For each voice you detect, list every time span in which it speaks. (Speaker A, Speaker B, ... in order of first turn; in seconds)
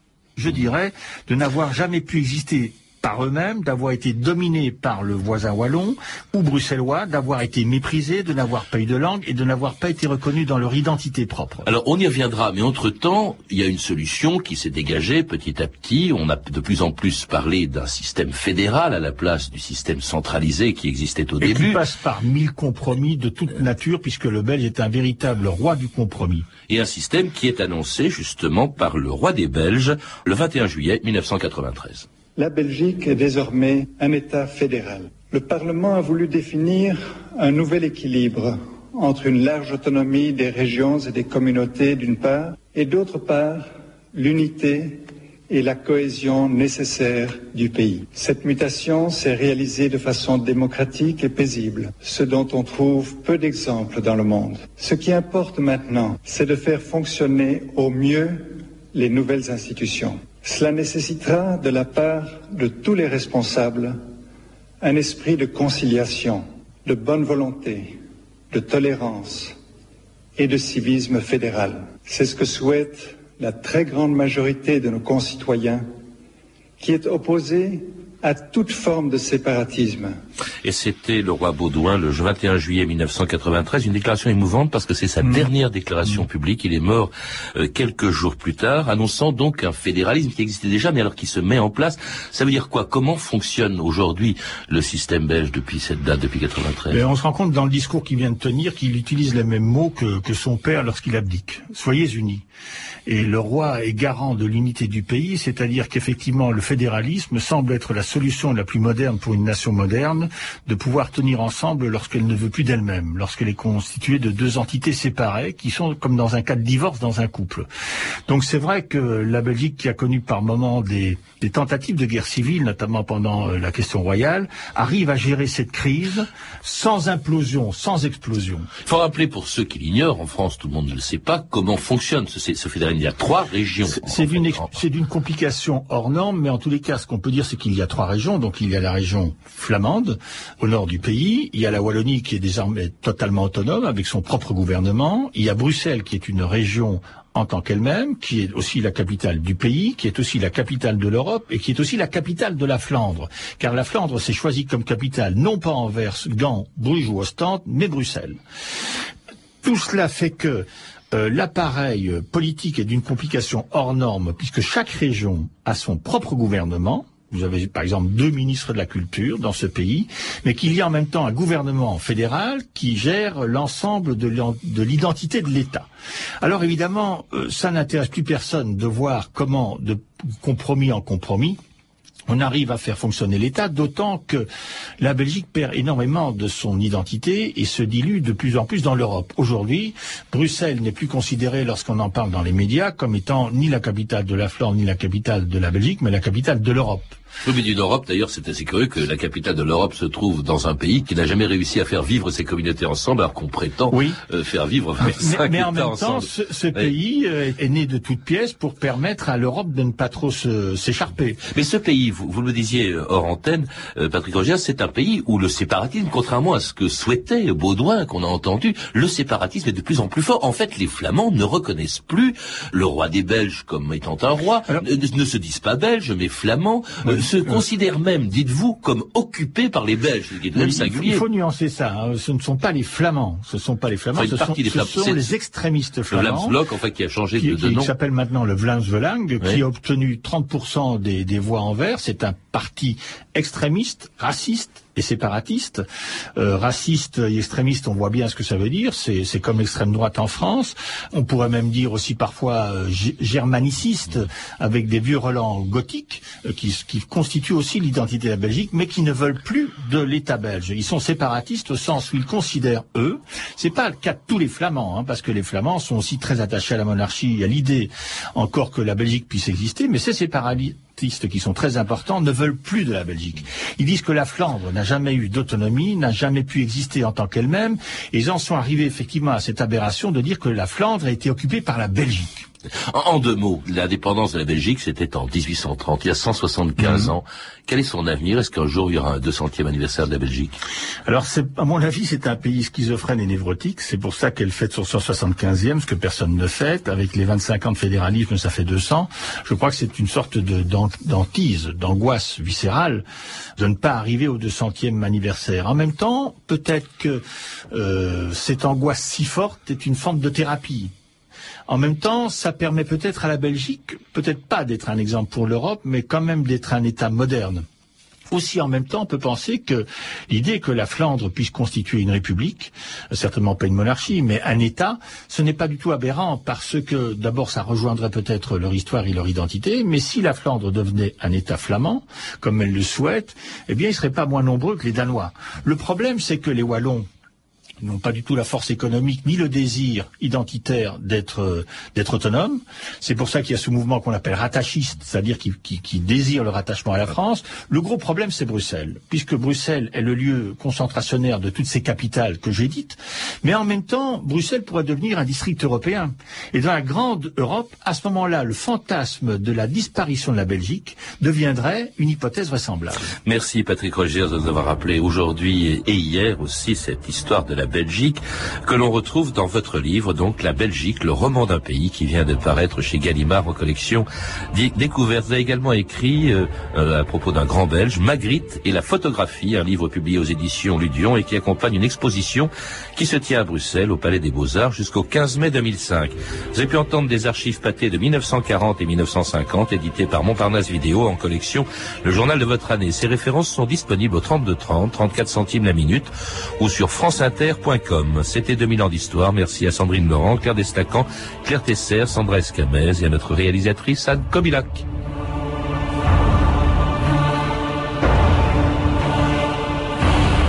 Speaker A: 0.4-11.7, 21.4-26.5, 96.9-102.5, 103.1-117.7, 118.3-128.7, 133.9-158.4, 159.6-175.9, 176.4-181.6, 182.3-184.5, 185.0-197.2, 203.9-204.2, 205.0-211.4, 227.1-227.6, 230.5-236.6, 237.4-245.8, 246.4-282.5, 286.8-287.1, 291.1-303.0, 303.6-310.9, 311.7-317.6, 318.3-337.1, 337.8-363.0
Speaker B: 11.7-21.8, 26.7-32.1, 80.6-97.0, 128.8-134.8, 197.4-206.9, 211.5-231.2, 234.2-235.3, 236.1-237.9, 282.9-290.6, 363.2-404.9
Speaker C: 32.4-64.0, 64.8-68.0, 68.5-69.6, 70.4-75.9, 76.8-80.2